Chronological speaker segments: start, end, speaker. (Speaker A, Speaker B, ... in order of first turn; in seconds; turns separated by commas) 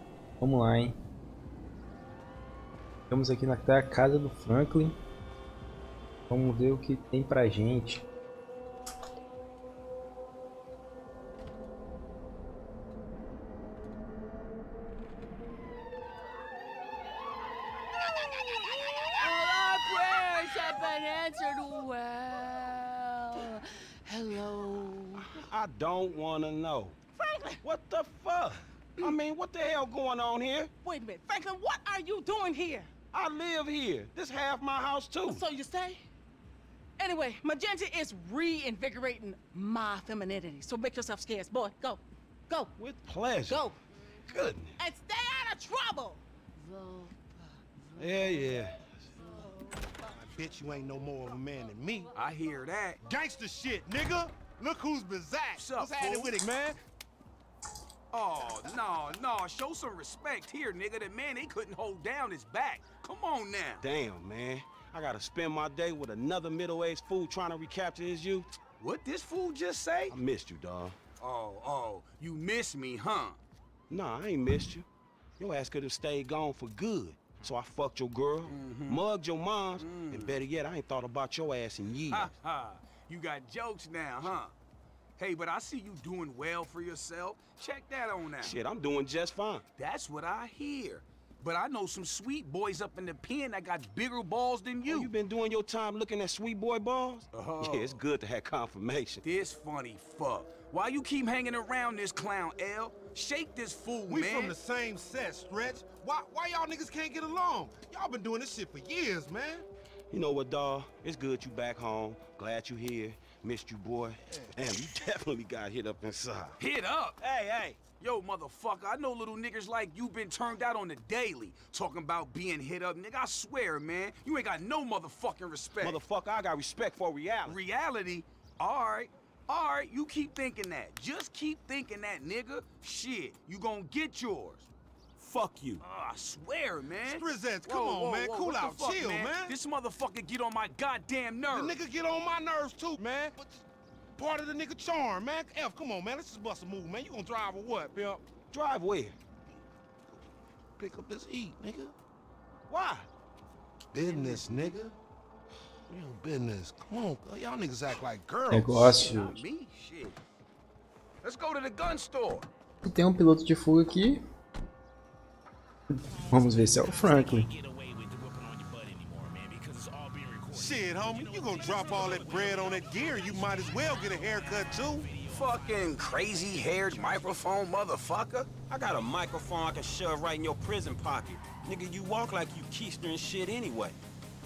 Speaker A: 0.4-0.9, Speaker A: 3.1-5.0, Speaker A: 6.3-8.1, Speaker B: 18.3-18.7, Speaker B: 19.2-25.4, Speaker C: 25.2-27.0, Speaker B: 27.2-27.6, Speaker C: 27.6-30.7, Speaker B: 30.8-32.9, Speaker C: 33.1-35.4, Speaker B: 35.3-36.0, Speaker B: 37.0-42.7, Speaker C: 42.8-43.7, Speaker B: 43.5-43.8, Speaker C: 44.3-44.8, Speaker B: 44.8-47.3, Speaker C: 48.0-48.9, Speaker B: 49.3-49.9, Speaker D: 50.1-52.1, Speaker E: 52.1-53.0, Speaker D: 53.0-56.8, Speaker E: 55.5-56.3, Speaker E: 58.1-63.8, Speaker C: 63.8-68.5, Speaker E: 68.7-70.2, Speaker C: 70.1-71.0, Speaker E: 71.2-73.4, Speaker C: 73.9-74.8, Speaker C: 75.4-82.3, Speaker E: 78.5-79.0, Speaker E: 79.8-80.4, Speaker E: 82.1-84.5, Speaker E: 85.2-88.6, Speaker C: 88.4-89.6, Speaker E: 89.8-95.1, Speaker C: 94.8-99.2, Speaker E: 97.3-98.0, Speaker E: 99.2-104.5, Speaker D: 104.1-109.7, Speaker C: 110.1-116.6, Speaker E: 116.6-117.2, Speaker C: 117.2-117.9, Speaker E: 117.9-126.0, Speaker C: 125.8-127.6, Speaker E: 127.4-134.7, Speaker C: 135.2-135.8, Speaker E: 135.3-141.8, Speaker D: 137.1-139.5, Speaker D: 141.5-143.6, Speaker D: 144.2-148.2, Speaker C: 148.5-149.2, Speaker D: 150.8-151.9, Speaker C: 152.7-153.1, Speaker D: 153.9-154.9, Speaker D: 155.9-158.9, Speaker A: 158.5-159.4, Speaker E: 158.9-160.2, Speaker E: 161.2-162.5, Speaker A: 162.8-164.2, Speaker A: 166.2-167.5, Speaker C: 167.0-169.4, Speaker D: 170.5-175.1, Speaker C: 171.4-173.6, Speaker E: 175.3-178.6, Speaker C: 178.6-184.0